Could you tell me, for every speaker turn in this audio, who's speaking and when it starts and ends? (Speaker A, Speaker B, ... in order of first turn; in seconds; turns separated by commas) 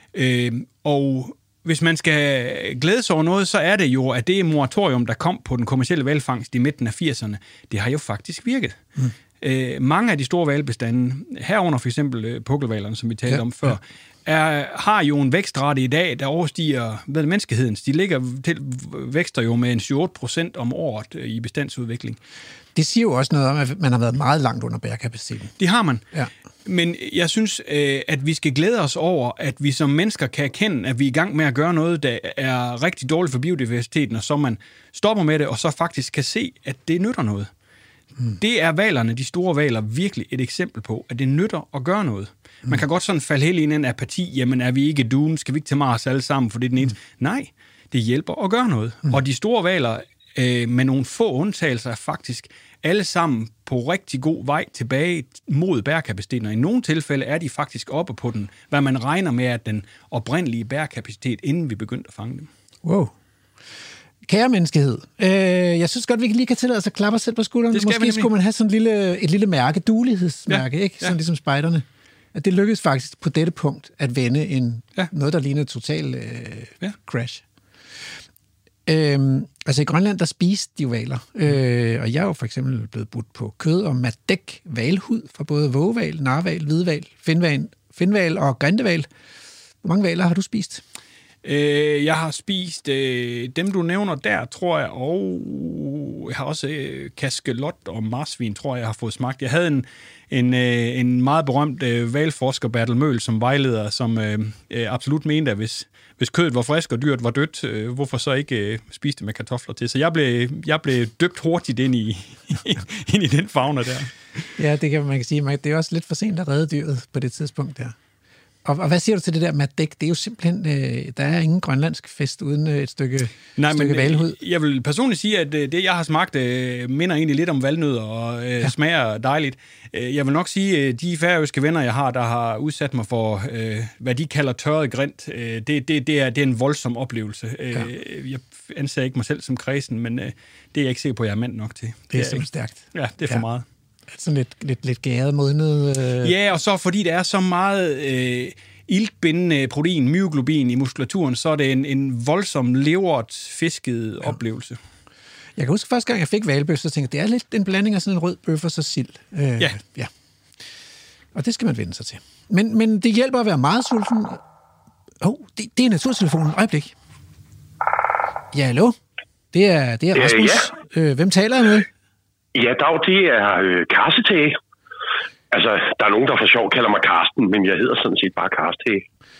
Speaker A: 0.1-8.8, Speaker A: 9.4-22.2, Speaker B: 22.7-25.5, Speaker A: 25.6-26.0, Speaker A: 26.6-37.5, Speaker A: 38.4-62.5, Speaker B: 62.8-63.1, Speaker B: 64.2-77.4, Speaker A: 67.7-68.3, Speaker A: 70.5-71.1, Speaker B: 78.8-89.1, Speaker B: 89.8-90.8, Speaker A: 91.4-114.1, Speaker B: 114.6-118.0, Speaker B: 118.6-124.3, Speaker A: 123.6-143.6, Speaker B: 142.1-143.4, Speaker B: 144.1-146.3, Speaker A: 146.2-154.8, Speaker B: 155.6-160.1, Speaker B: 161.3-164.4, Speaker B: 165.2-166.9, Speaker B: 168.5-168.9, Speaker B: 169.5-171.9, Speaker C: 170.1-170.6, Speaker C: 172.5-174.6, Speaker C: 175.5-179.0